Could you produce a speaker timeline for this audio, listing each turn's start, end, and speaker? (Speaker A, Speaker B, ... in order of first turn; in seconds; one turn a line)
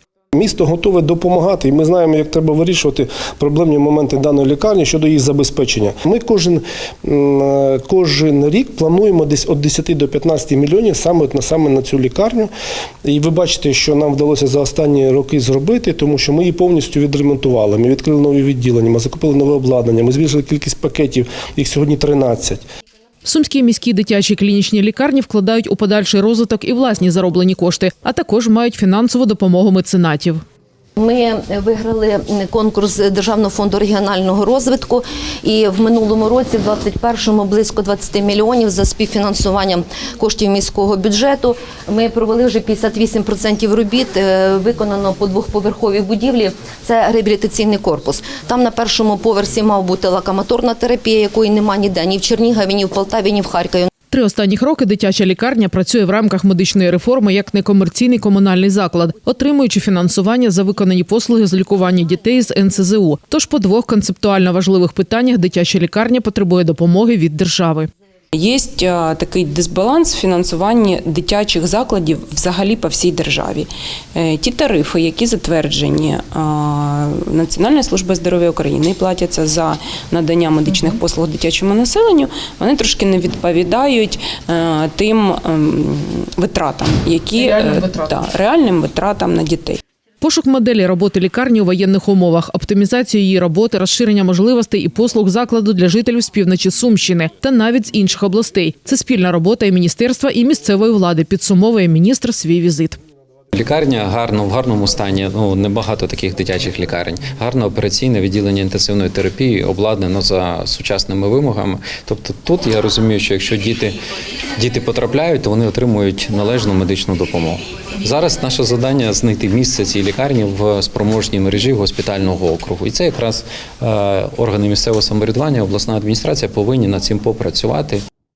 Speaker A: 0.3-12.5
Speaker A: 13.1-22.6
Speaker B: 23.2-30.4
Speaker C: 31.0-53.9
Speaker B: 54.1-67.9
Speaker D: 68.3-89.8
Speaker B: 90.2-103.0
Speaker E: 103.5-114.0
Speaker E: 114.6-128.0